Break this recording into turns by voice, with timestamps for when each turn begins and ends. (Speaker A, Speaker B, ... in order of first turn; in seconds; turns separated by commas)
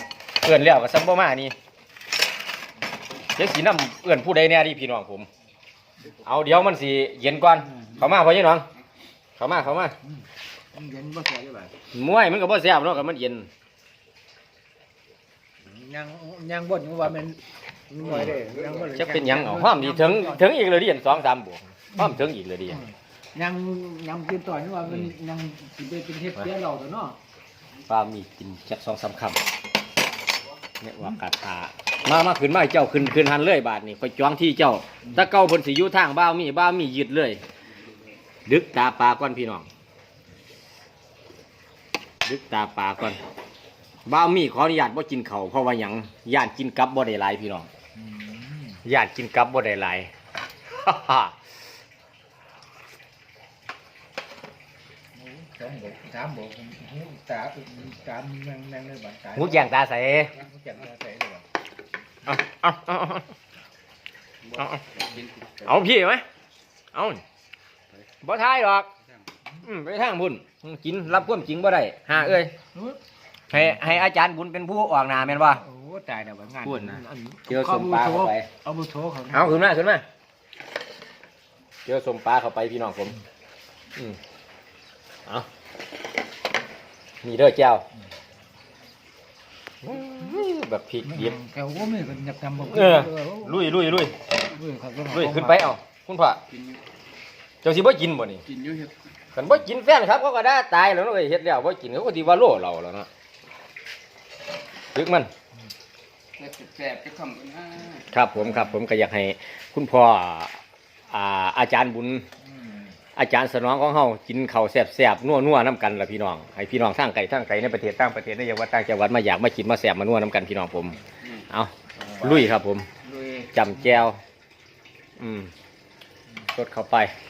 Speaker A: 0.4-1.5, Speaker A: 3.3-5.3, Speaker A: 6.2-8.7, Speaker B: 7.7-8.0, Speaker A: 9.4-9.9, Speaker B: 10.7-11.8, Speaker A: 11.9-13.5, Speaker B: 15.6-20.5, Speaker A: 18.0-22.8, Speaker C: 18.3-18.9, Speaker B: 22.7-27.2, Speaker A: 24.9-25.1, Speaker A: 27.9-29.4, Speaker A: 30.8-37.4, Speaker A: 38.5-39.7, Speaker A: 42.2-43.2, Speaker A: 44.0-47.7, Speaker B: 48.0-48.8, Speaker A: 48.8-50.1, Speaker A: 50.7-51.4, Speaker B: 55.1-59.7, Speaker A: 59.3-60.3, Speaker B: 60.3-61.4, Speaker A: 62.2-63.3, Speaker C: 64.4-65.7, Speaker A: 65.6-66.2, Speaker A: 66.9-67.2, Speaker A: 68.2-68.9, Speaker A: 69.6-72.5, Speaker B: 72.7-73.0, Speaker A: 73.5-75.6, Speaker B: 75.5-79.7, Speaker A: 76.6-78.5, Speaker A: 79.3-80.0, Speaker A: 81.8-83.2, Speaker A: 87.2-87.8, Speaker A: 89.8-91.4, Speaker B: 91.0-93.7, Speaker A: 92.6-94.3, Speaker B: 94.4-95.8, Speaker A: 95.1-96.4, Speaker C: 96.5-96.8, Speaker A: 97.6-98.4, Speaker C: 98.5-98.9, Speaker A: 99.3-103.1, Speaker A: 104.9-105.3, Speaker C: 106.4-108.1, Speaker A: 108.1-112.2, Speaker B: 112.4-112.9, Speaker A: 113.1-122.9, Speaker B: 122.0-122.2, Speaker B: 123.1-123.4, Speaker A: 123.5-124.2, Speaker A: 125.2-125.5, Speaker A: 126.5-127.1